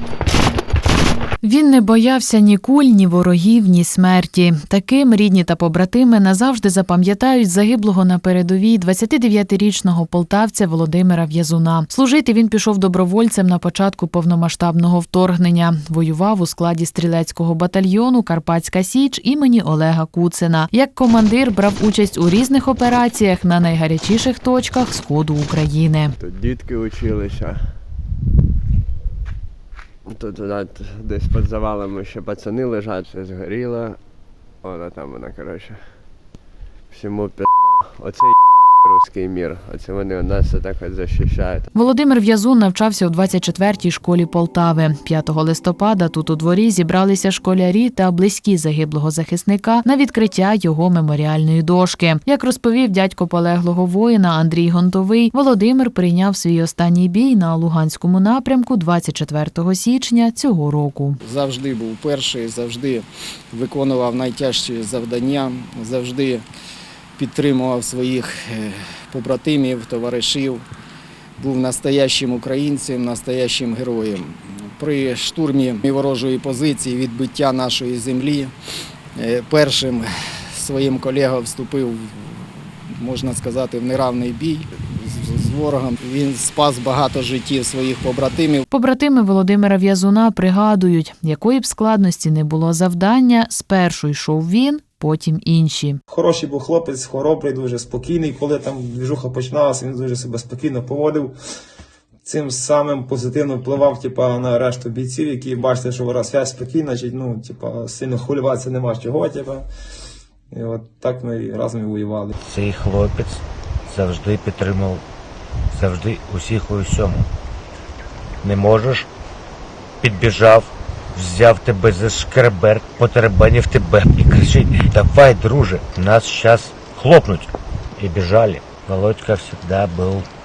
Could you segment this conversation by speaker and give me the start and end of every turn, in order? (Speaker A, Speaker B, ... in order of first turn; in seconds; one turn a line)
Speaker A: 1.4-26.1
Speaker B: 26.2-27.7
Speaker B: 30.1-34.0
Speaker B: 34.6-36.2
Speaker B: 36.9-41.7
Speaker A: 41.7-61.2
Speaker C: 61.2-66.4
Speaker C: 67.2-70.6
Speaker C: 71.4-78.5
Speaker C: 79.2-88.6
Speaker A: 88.7-96.0
Speaker D: 96.1-101.3
Speaker D: 102.2-109.7
Speaker D: 110.5-112.3
Speaker E: 112.4-115.0
Speaker E: 115.7-117.3
Speaker E: 118.4-119.1
Speaker E: 120.0-130.3